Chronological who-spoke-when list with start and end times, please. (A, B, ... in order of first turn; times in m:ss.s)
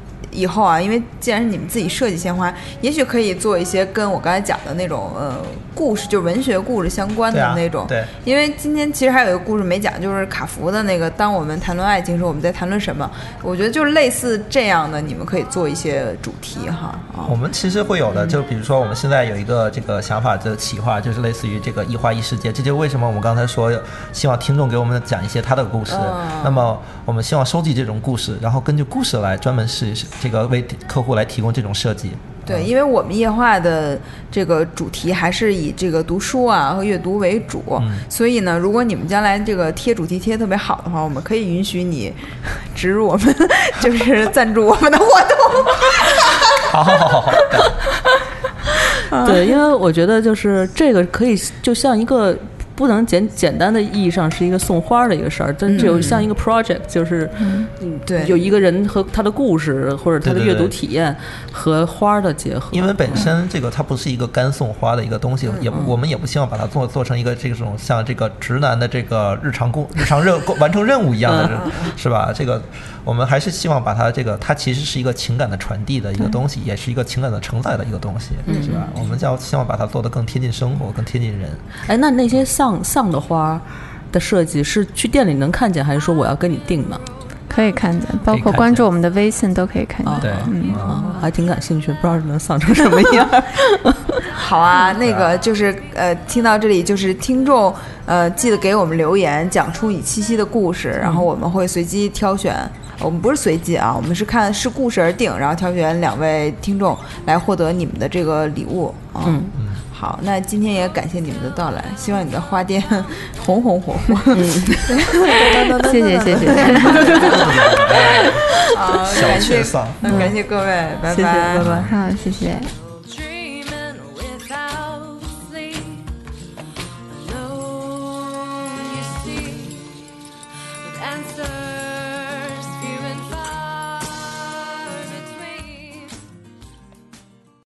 0:00.3-0:17.4 A
0:07.3-0:08.1 B
0:17.2-0:32.7 B
0:25.9-0:26.7 A
0:32.5-0:46.6 A
0:37.8-0:38.0 B
0:46.6-0:47.8 B
0:49.1-0:49.6 A
0:49.2-1:03.2 C
0:55.7-0:56.1 A
0:55.8-0:56.3 B
0:57.4-0:57.7 D
0:58.1-0:58.4 A
1:00.2-1:00.7 B
1:02.7-1:21.6 B
1:05.5-1:05.8 A
1:11.2-1:11.6 C
1:11.5-1:11.9 A
1:18.5-1:18.9 C
1:21.9-1:27.0 C
1:27.5-1:31.0 D
1:28.3-1:28.9 B
1:30.0-1:34.2 C
1:30.2-1:31.0 B
1:34.3-2:01.7 A
1:35.0-1:35.3 B
1:49.2-1:49.5 C
1:54.3-1:55.5 C
1:55.8-1:57.1 D
1:56.3-1:57.4 C
1:57.0-2:00.3 B
2:00.1-2:00.3 C
2:01.1-2:01.9 C
2:01.6-2:01.9 B
2:01.9-2:02.7 D
2:02.8-2:06.1 E
2:07.1-2:09.9 E
2:10.8-2:16.2 E